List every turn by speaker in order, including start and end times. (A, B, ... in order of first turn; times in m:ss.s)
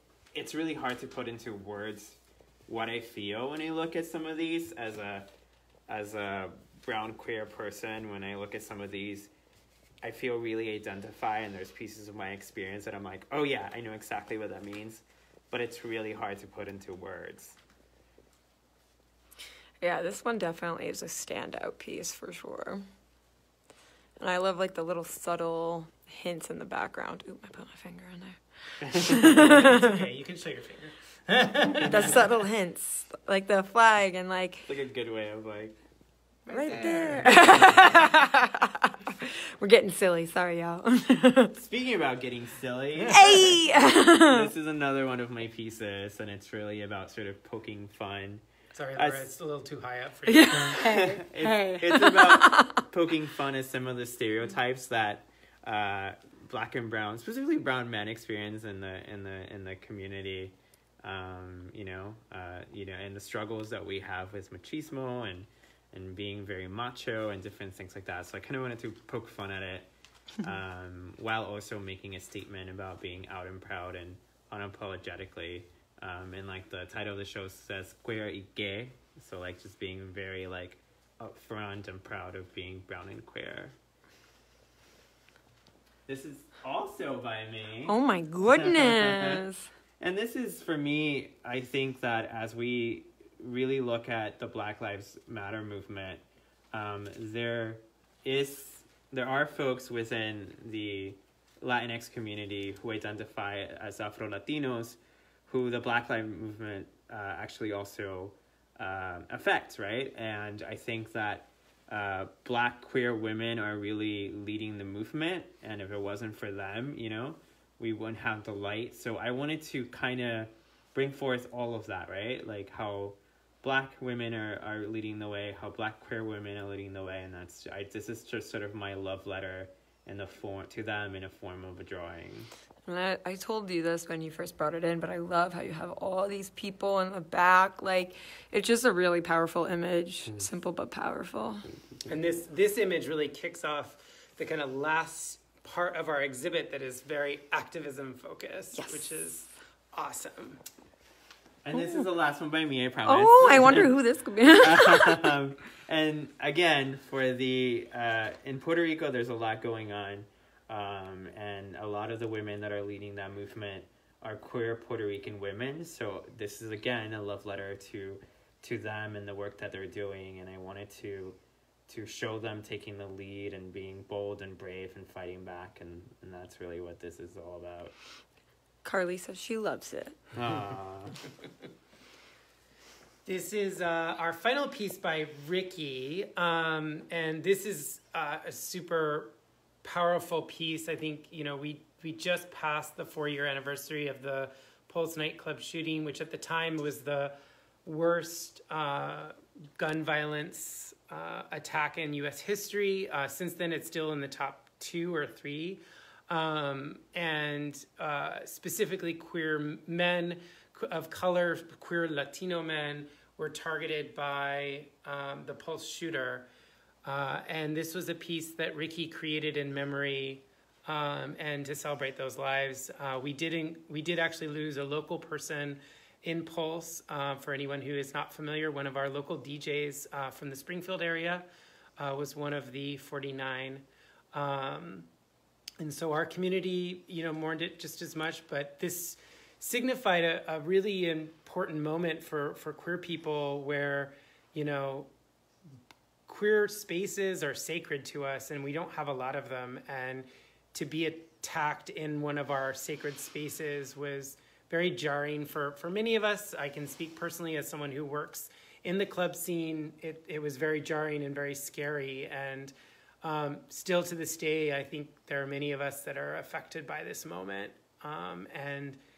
0:00.3-0:05.3 A
0:05.9-0:09.3 A
0:10.0-0:17.6 A
0:19.8-0:22.8 B
0:24.2-0:30.0 B
0:29.1-0:32.2 C
0:31.8-0:34.7 B
0:34.6-0:35.8 A
0:36.4-0:37.4 C
0:36.5-0:41.5 B
0:37.5-0:37.8 A
0:41.6-0:43.6 A
0:43.1-0:44.5 B
0:44.2-0:49.2 A
0:48.7-0:51.0 C
0:50.2-0:52.8 B
0:50.7-1:23.8 A
1:26.1-1:27.9 A
1:27.8-1:29.7 B
1:28.5-1:29.4 A
1:30.0-2:12.5 A
2:12.8-2:21.7 B
2:21.7-2:22.1 A
2:22.1-2:30.6 C
2:28.7-2:29.2 B
2:31.6-2:33.9 A
2:31.7-2:32.0 B
2:33.0-2:35.4 B
2:34.5-2:57.9 A
2:58.8-3:00.2 B
3:00.3-3:01.2 A
3:03.2-3:36.5 C
3:37.0-3:51.4 C
3:52.0-3:55.1 C
3:55.8-4:05.1 C
4:06.3-4:29.0 C